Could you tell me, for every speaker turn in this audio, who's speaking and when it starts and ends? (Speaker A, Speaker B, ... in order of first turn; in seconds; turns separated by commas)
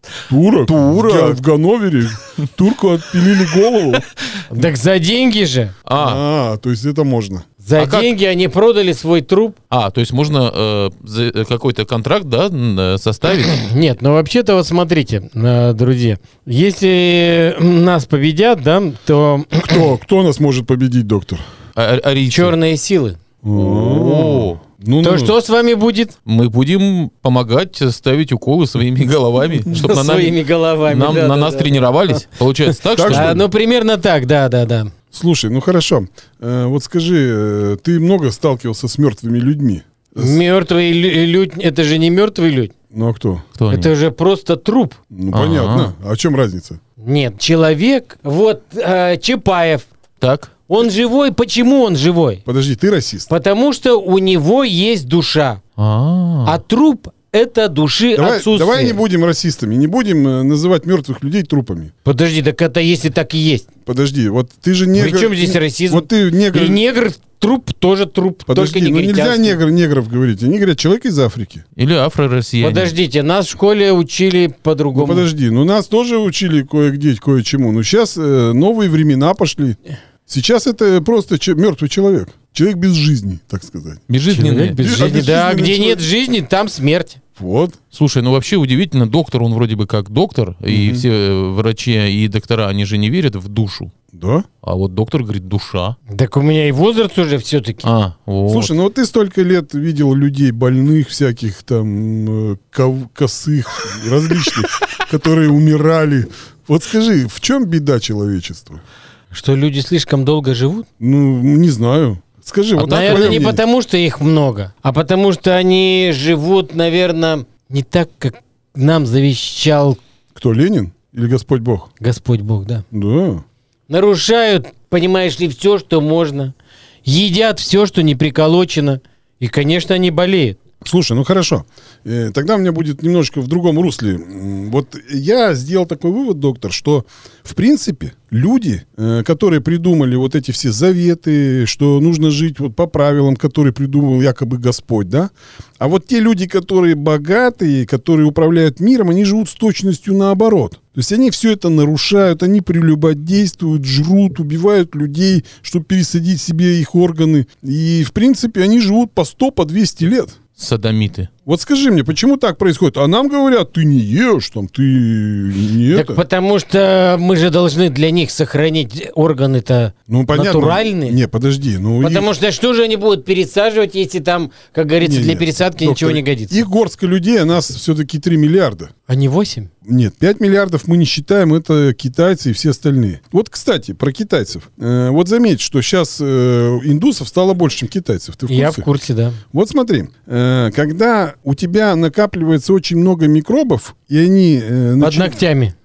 Speaker A: 0.3-4.1, Speaker B: 0.7-1.4, Speaker C: 4.5-5.7, Speaker B: 5.9-6.2, Speaker A: 6.0-7.5, Speaker C: 7.6-9.6, Speaker B: 7.8-8.1, Speaker B: 9.7-13.6, Speaker C: 13.4-19.9, Speaker A: 19.6-21.4, Speaker B: 21.8-22.6, Speaker C: 22.3-23.2, Speaker A: 23.4-25.3, Speaker B: 23.6-24.6, Speaker C: 25.0-26.1, Speaker B: 26.2-33.4, Speaker C: 29.7-32.2, Speaker A: 32.9-33.4, Speaker C: 33.0-34.9, Speaker A: 35.1-40.4, Speaker C: 40.2-42.7, Speaker A: 42.9-43.4, Speaker B: 43.6-43.9, Speaker C: 43.7-45.0, Speaker A: 45.1-46.8, Speaker B: 45.3-45.9, Speaker C: 47.0-49.9, Speaker B: 50.2-50.5, Speaker C: 50.7-52.4, Speaker A: 52.5-53.3, Speaker C: 53.3-55.6, Speaker B: 55.8-56.6, Speaker C: 56.5-59.0, Speaker A: 58.1-61.9, Speaker C: 62.0-63.6, Speaker A: 63.9-66.8, Speaker C: 65.0-69.6, Speaker A: 68.5-71.6, Speaker B: 71.8-73.0, Speaker C: 72.6-75.3, Speaker A: 74.9-84.0, Speaker B: 84.1-84.9, Speaker C: 84.3-87.2, Speaker A: 84.8-86.0, Speaker A: 87.4-87.8, Speaker B: 87.9-93.9, Speaker A: 90.7-91.0, Speaker A: 94.1-94.5, Speaker B: 94.6-96.0, Speaker C: 96.1-97.8, Speaker B: 97.8-98.7, Speaker A: 98.5-108.8, Speaker C: 109.3-110.9, Speaker A: 111.0-113.6, Speaker B: 112.8-113.5, Speaker C: 112.8-120.0, Speaker A: 120.3-121.9, Speaker C: 122.0-122.8, Speaker A: 122.9-123.4, Speaker C: 123.9-126.5, Speaker C: 127.0-130.6, Speaker A: 130.8-160.4, Speaker B: 160.6-161.3, Speaker A: 161.5-166.2, Speaker C: 165.9-171.2, Speaker A: 170.1-172.3, Speaker C: 172.0-176.6, Speaker A: 175.0-178.9, Speaker C: 179.1-179.7, Speaker A: 179.8-188.9, Speaker C: 188.5-189.4, Speaker A: 189.5-195.4, Speaker C: 195.0-195.8